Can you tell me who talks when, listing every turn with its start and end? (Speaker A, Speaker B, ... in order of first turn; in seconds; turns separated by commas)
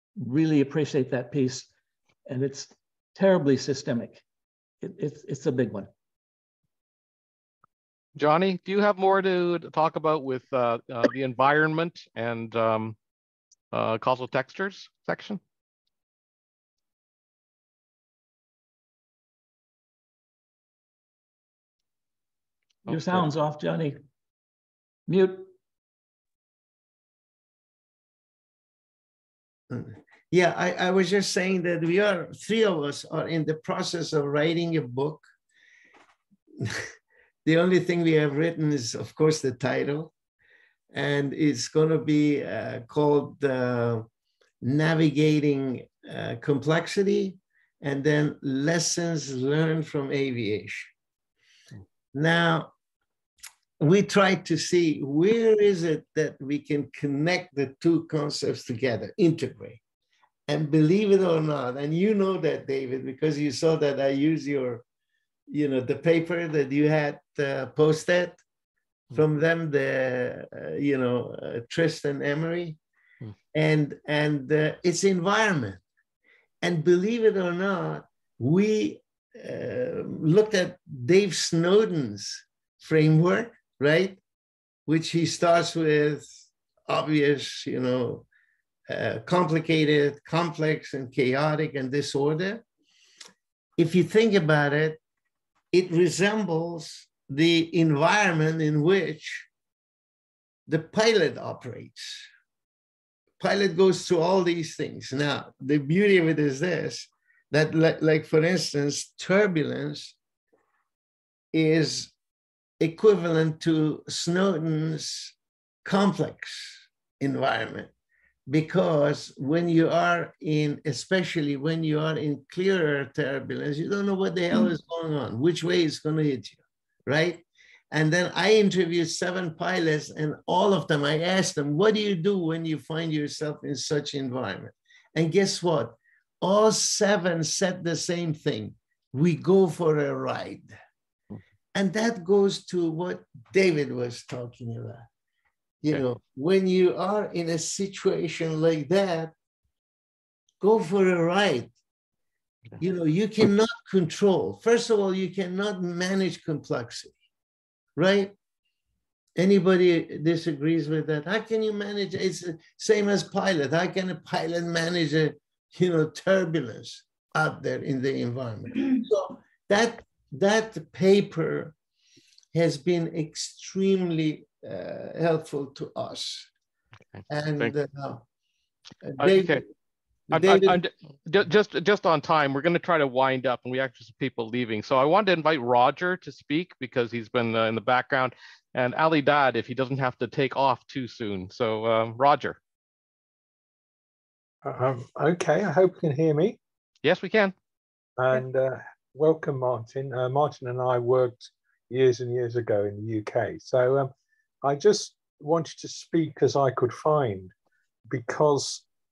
Speaker A: 0.2-1.7, Speaker A: 2.3-4.2, Speaker A: 4.8-5.9, Speaker B: 8.2-13.0, Speaker B: 13.7-15.4, Speaker A: 22.9-24.0, Speaker A: 25.1-25.5, Speaker C: 29.7-35.2, Speaker C: 37.5-40.1, Speaker C: 40.9-44.1, Speaker C: 44.6-50.9, Speaker C: 52.1-52.7, Speaker C: 53.8-59.8, Speaker C: 60.5-64.8, Speaker C: 65.5-68.4, Speaker C: 69.1-72.8, Speaker C: 73.5-75.8, Speaker C: 76.6-84.2, Speaker C: 84.9-88.3, Speaker C: 88.9-92.6, Speaker C: 93.8-95.0, Speaker C: 95.7-99.5, Speaker C: 100.7-102.3, Speaker C: 103.4-110.2, Speaker C: 111.5-112.1, Speaker C: 112.8-117.9, Speaker C: 118.5-140.7, Speaker C: 141.7-145.1, Speaker C: 145.8-149.3, Speaker C: 150.6-151.7, Speaker C: 152.8-157.1, Speaker C: 158.0-158.3, Speaker C: 159.4-171.8, Speaker C: 172.5-176.5, Speaker B: 177.1-177.7, Speaker C: 177.3-178.2, Speaker C: 179.0-179.6, Speaker B: 179.2-179.6, Speaker C: 180.3-180.8, Speaker B: 180.3-192.6, Speaker D: 194.6-196.6, Speaker B: 197.0-197.5, Speaker D: 198.2-204.1, Speaker D: 204.6-207.5, Speaker D: 208.1-208.8